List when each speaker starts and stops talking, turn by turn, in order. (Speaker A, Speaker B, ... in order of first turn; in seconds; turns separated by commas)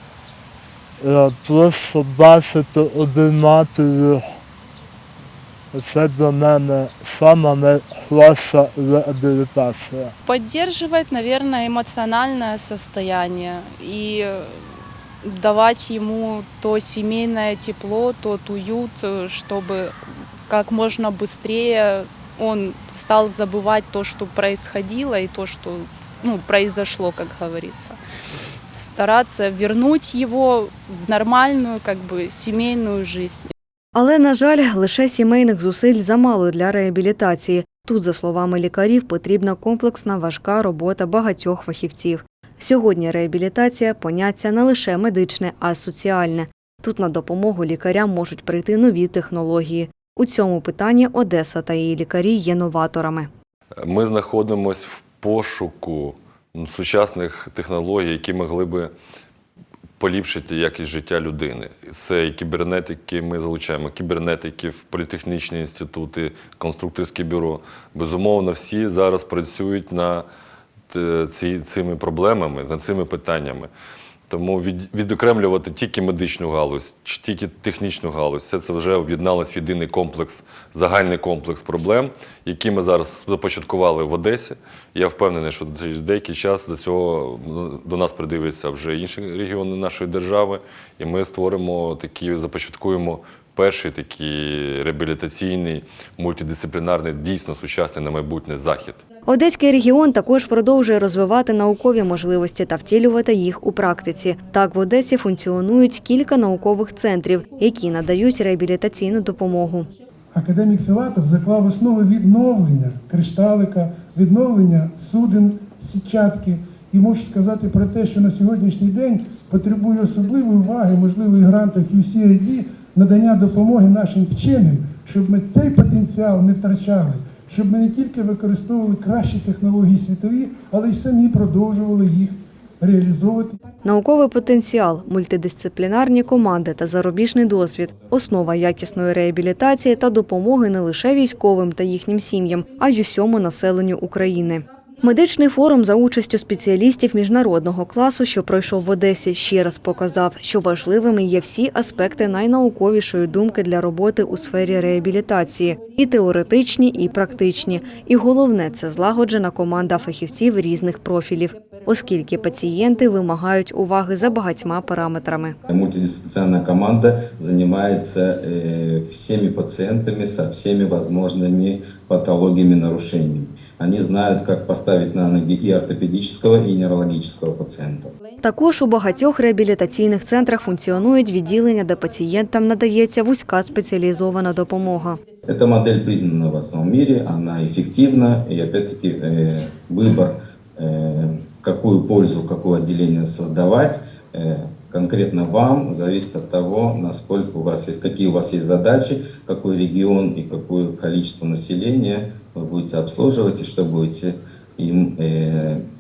Speaker A: 1.0-4.3, Speaker A: 5.7-10.1, Speaker B: 10.2-14.6, Speaker B: 15.2-19.9, Speaker B: 20.5-28.0, Speaker B: 28.7-33.5, Speaker C: 33.9-53.3, Speaker D: 53.8-58.9, Speaker D: 60.0-70.2, Speaker D: 70.9-73.7, Speaker D: 74.3-99.0, Speaker C: 99.3-109.9, Speaker E: 110.3-133.6, Speaker C: 133.8-165.6, Speaker F: 165.7-178.1, Speaker C: 178.4-185.2, Speaker F: 185.5-205.8